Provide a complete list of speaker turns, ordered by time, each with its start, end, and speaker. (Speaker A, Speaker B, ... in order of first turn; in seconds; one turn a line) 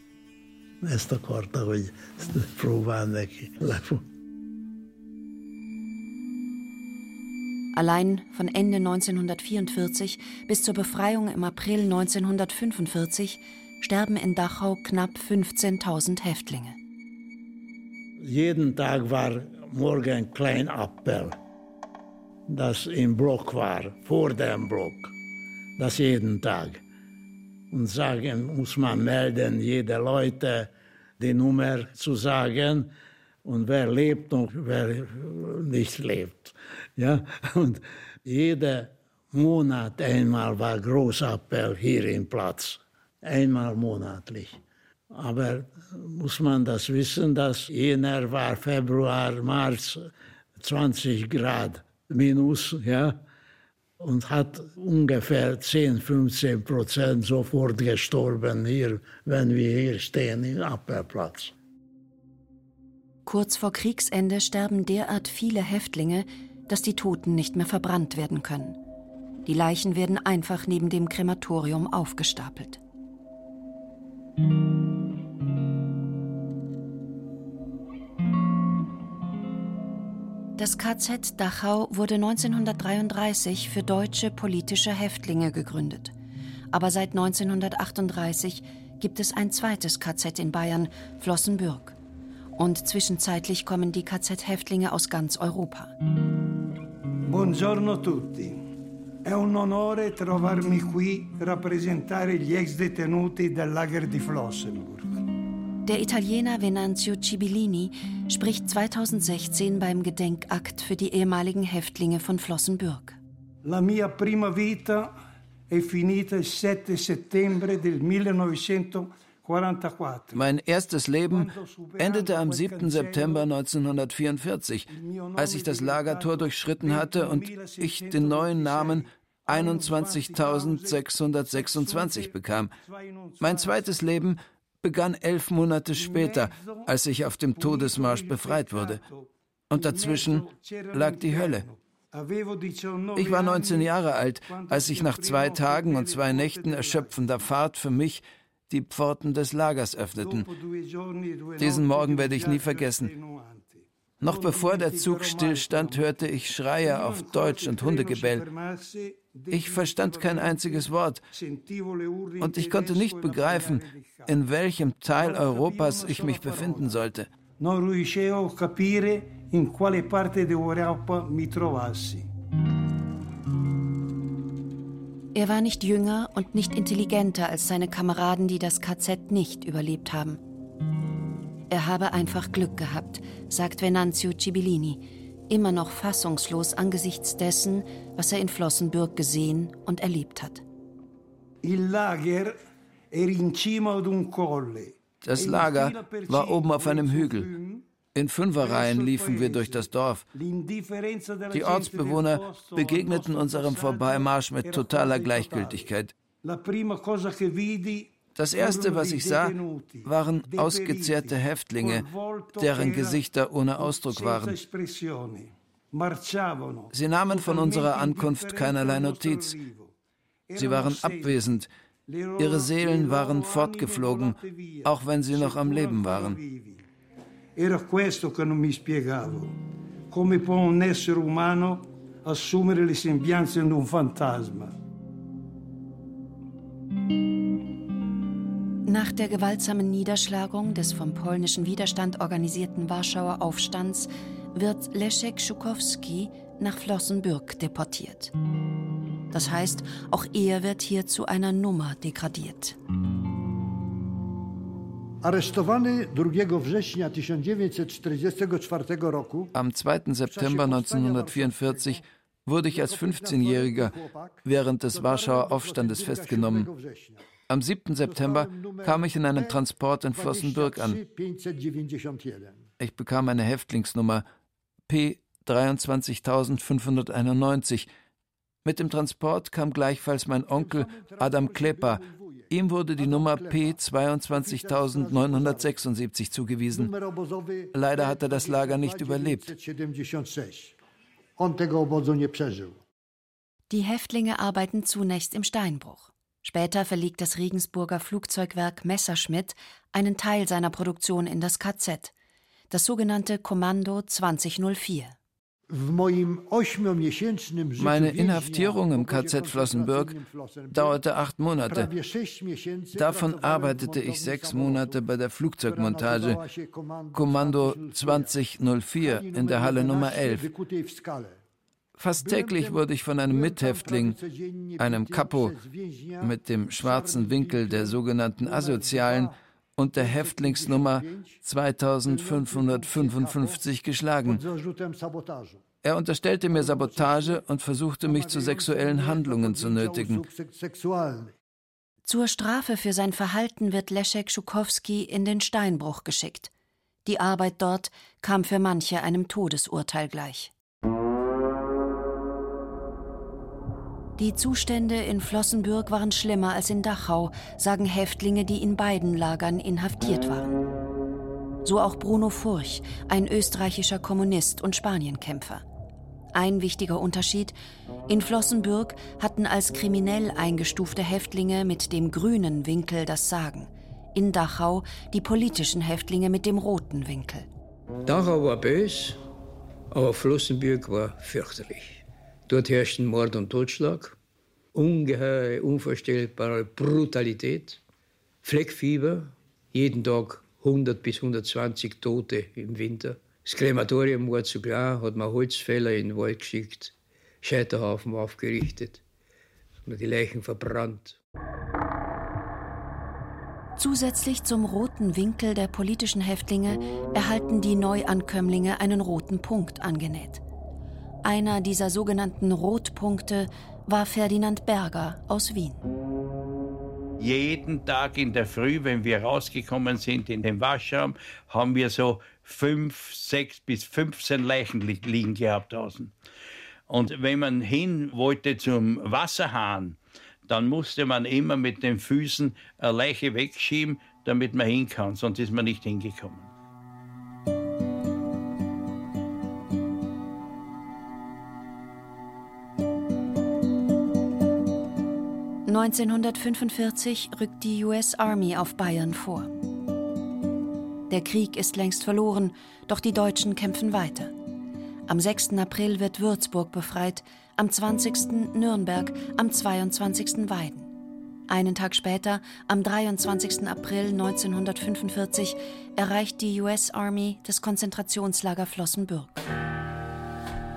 Speaker A: 0.8-4.0
Speaker B: 7.7-16.8
Speaker A: 18.2-21.4
Speaker A: 22.5-25.1
Speaker A: 25.8-26.8
Speaker A: 27.7-32.9
Speaker A: 33.4-44.6
Speaker A: 45.1-53.2
Speaker A: 54.0-61.5
Speaker B: 63.2-68.8
Speaker B: 69.5-72.8
Speaker B: 80.6-86.1
Speaker B: 86.7-92.0
Speaker B: 92.6-95.9
Speaker C: 97.3-98.6
Speaker C: 99.2-105.2
Speaker B: 105.8-113.2
Speaker C: 113.6-115.1
Speaker C: 115.7-120.4
Speaker D: 120.3-132.7
Speaker C: 121.3-123.5
Speaker C: 124.9-134.0
Speaker D: 133.4-139.0
Speaker C: 135.9-136.9
Speaker C: 137.5-143.9
Speaker D: 139.7-141.7
Speaker D: 143.2-150.5
Speaker C: 144.5-147.2
Speaker C: 150.2-164.4
Speaker D: 151.6-153.1
Speaker D: 154.2-158.5
Speaker D: 159.5-161.2
Speaker D: 162.4-167.3
Speaker C: 165.1-167.0
Speaker C: 167.6-172.3
Speaker B: 175.3-180.4
Speaker B: 181.7-190.6
Speaker C: 191.6-192.6
Speaker C: 193.1-197.8
Speaker D: 195.2-197.5
Speaker D: 198.1-200.2
Speaker C: 198.6-205.9
Speaker D: 201.5-206.1
Speaker C: 206.4-213.2
Speaker D: 208.3-214.6
Speaker C: 213.8-219.9
Speaker D: 216.9-219.6
Speaker C: 220.5-221.5
Speaker D: 220.6-221.7
Speaker C: 222.1-226.8
Speaker D: 222.4-226.4
Speaker C: 227.6-229.6
Speaker C: 230.1-234.7
Speaker B: 238.9-248.3
Speaker B: 249.3-252.8
Speaker C: 255.2-259.5
Speaker D: 259.5-266.7
Speaker C: 260.3-262.0
Speaker C: 262.6-267.3
Speaker D: 267.5-271.0
Speaker C: 268.0-269.6
Speaker C: 270.1-272.6
Speaker D: 272.8-274.2
Speaker D: 274.9-277.9
Speaker D: 278.6-286.9
Speaker C: 280.5-283.8
Speaker C: 284.3-285.8
Speaker C: 286.7-290.8
Speaker D: 287.7-289.5
Speaker C: 291.4-292.8
Speaker B: 293.7-302.1
Speaker B: 302.7-305.2
Speaker C: 305.7-311.0
Speaker D: 307.8-310.2
Speaker D: 310.7-311.9
Speaker C: 311.7-315.0
Speaker D: 312.9-316.4
Speaker C: 315.6-318.4
Speaker D: 317.1-320.5
Speaker C: 319.0-321.4
Speaker D: 322.0-324.2
Speaker C: 322.1-329.3
Speaker D: 324.8-325.6
Speaker D: 326.2-334.4
Speaker C: 329.9-331.4
Speaker C: 332.0-333.6
Speaker C: 334.2-335.6
Speaker D: 335.8-340.2
Speaker C: 336.5-337.4
Speaker C: 338.0-341.3
Speaker B: 342.0-346.5
Speaker B: 347.0-350.5
Speaker B: 354.2-360.6
Speaker B: 361.6-365.6
Speaker B: 366.3-367.6
Speaker B: 368.1-377.5
Speaker E: 378.1-379.2
Speaker E: 379.9-384.2
Speaker E: 384.7-387.8
Speaker E: 388.4-399.0
Speaker E: 399.9-401.2
Speaker B: 403.8-410.4
Speaker B: 411.2-415.8
Speaker F: 417.2-426.1
Speaker F: 426.9-436.5
Speaker B: 445.7-449.5
Speaker B: 451.1-454.3
Speaker B: 455.1-460.9
Speaker B: 461.5-469.4